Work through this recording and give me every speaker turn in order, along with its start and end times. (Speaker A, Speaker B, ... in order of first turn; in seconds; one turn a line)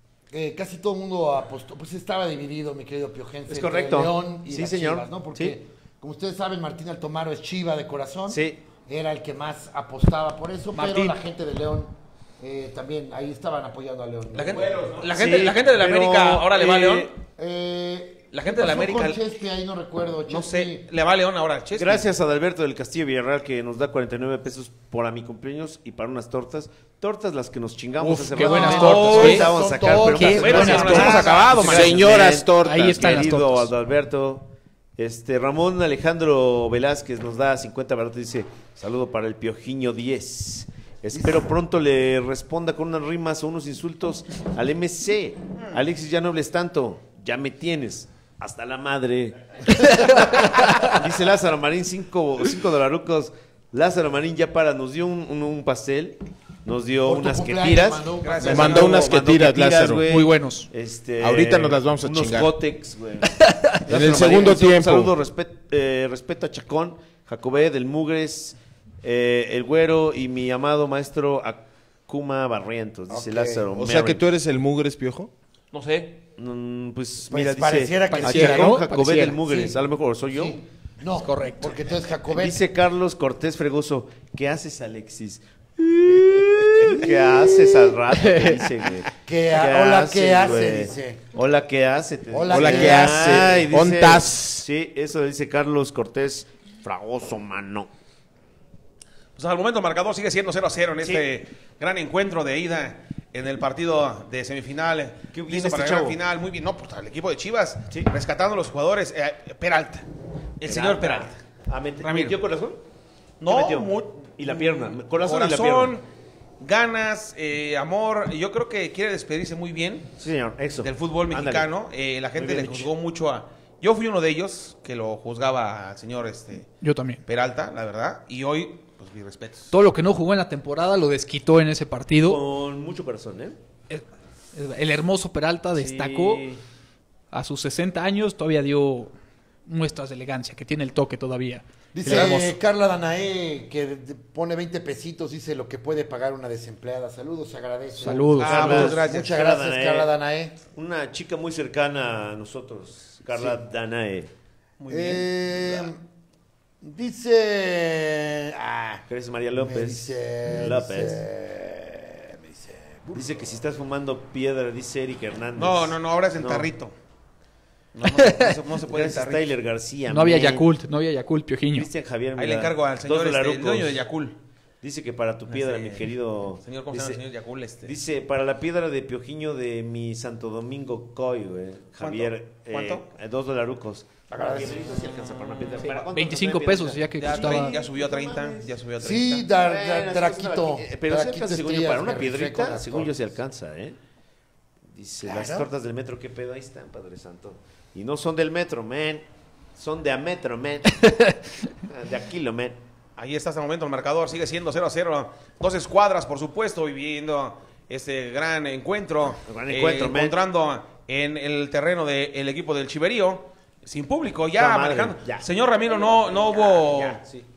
Speaker A: 0.3-14.9
Speaker B: 3.5-5.6
Speaker B: 8.3-8.6
Speaker C: 10.7-11.2
Speaker D: 14.3-17.1
Speaker E: 14.5-15.1
Speaker B: 15.0-17.1
Speaker A: 17.4-20.9
Speaker D: 18.3-19.2
Speaker D: 20.3-22.1
Speaker B: 21.7-74.2
Speaker C: 28.0-31.3
Speaker A: 28.4-31.6
Speaker D: 28.5-32.1
Speaker E: 31.0-33.0
Speaker C: 32.6-33.7
Speaker C: 50.6-50.9
Speaker A: 57.0-59.1
Speaker D: 58.2-59.0
Speaker E: 58.4-60.0
Speaker C: 60.0-60.7
Speaker E: 61.2-62.5
Speaker C: 63.4-63.8
Speaker E: 63.9-65.1
Speaker A: 73.1-73.7
Speaker E: 73.7-75.3
Speaker D: 75.7-76.2
Speaker B: 76.4-80.6
Speaker A: 77.3-78.8
Speaker C: 78.1-79.8
Speaker A: 80.3-82.6
Speaker C: 81.2-81.7
Speaker B: 82.3-97.9
Speaker A: 87.4-87.9
Speaker C: 88.1-88.7
Speaker A: 89.2-91.2
Speaker A: 92.3-93.5
Speaker E: 92.5-94.7
Speaker D: 99.4-110.1
Speaker B: 105.3-106.2
Speaker D: 110.6-111.4
Speaker B: 110.6-112.8
Speaker D: 112.0-112.4
Speaker D: 113.4-116.0
Speaker B: 113.5-115.9
Speaker D: 116.6-120.1
Speaker B: 120.2-121.7
Speaker D: 120.8-126.7
Speaker B: 122.4-122.9
Speaker C: 126.8-127.2
Speaker D: 127.2-129.7
Speaker C: 129.7-132.4
Speaker B: 132.2-133.6
Speaker C: 133.9-136.5
Speaker B: 135.7-136.6
Speaker C: 137.3-139.1
Speaker C: 139.7-142.5
Speaker A: 141.9-150.6
Speaker C: 148.0-148.9
Speaker B: 148.0-150.1
Speaker D: 148.4-149.3
Speaker B: 150.8-154.3
Speaker A: 153.3-153.6
Speaker D: 154.8-155.9
Speaker A: 154.9-156.0
Speaker A: 156.8-159.0
Speaker B: 159.1-161.2
Speaker A: 159.6-163.4
Speaker B: 163.1-166.7
Speaker D: 165.6-166.9
Speaker D: 167.9-169.5
Speaker C: 168.2-168.5
Speaker B: 168.8-170.7
Speaker C: 170.1-171.9
Speaker B: 171.7-174.0
Speaker D: 172.4-174.4
Speaker B: 174.8-177.2
Speaker D: 175.5-177.9
Speaker B: 177.8-188.8
Speaker D: 182.0-183.1
Speaker A: 184.3-185.1
Speaker D: 185.3-185.9
Speaker C: 185.8-187.8
Speaker D: 187.2-189.5
Speaker A: 189.0-193.1
Speaker B: 189.5-194.0
Speaker B: 194.9-201.1
Speaker A: 195.2-195.7
Speaker C: 201.0-201.3
Speaker B: 201.8-202.8
Speaker D: 203.2-217.2
Speaker B: 209.4-210.4
Speaker B: 214.6-217.5